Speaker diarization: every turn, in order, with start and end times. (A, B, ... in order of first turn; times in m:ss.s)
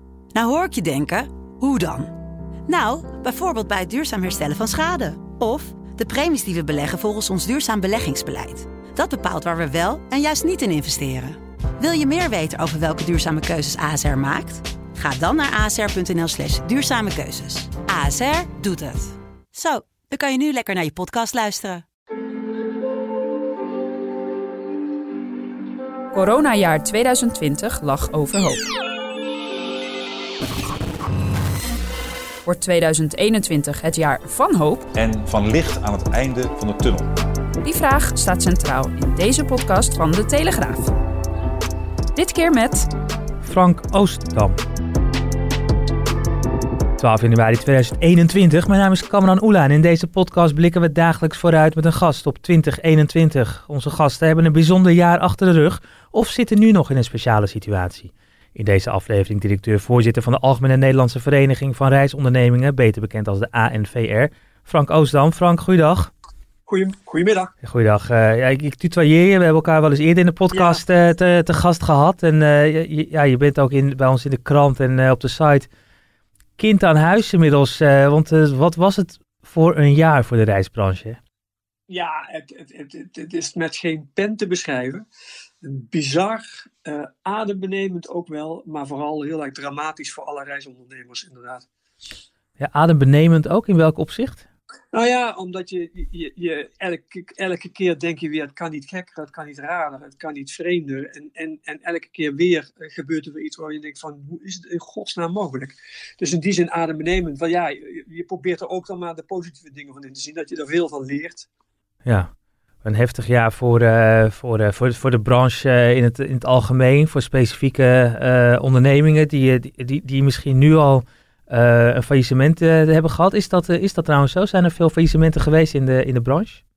0:00.4-0:02.0 A
0:02.7-0:11.3 A
0:11.8-0:18.8 A
0:19.6-0:21.8 A
0:26.1-0:28.6 B
0:32.4-0:34.8 B
0:34.9-0:37.1 C
0:37.6-0:40.8 B
0:42.2-0:42.8 B
0:43.4-0:44.6 D
0:47.0-1:06.1 D
1:06.6-1:07.5 E
1:07.6-1:15.7 D
1:10.5-1:10.8 E
1:16.6-1:21.2 D
1:21.9-1:25.0 E
1:25.6-1:31.6 E
1:32.6-1:34.4 D
1:34.9-1:51.5 E
1:52.0-1:52.3 D
1:52.8-2:06.6 D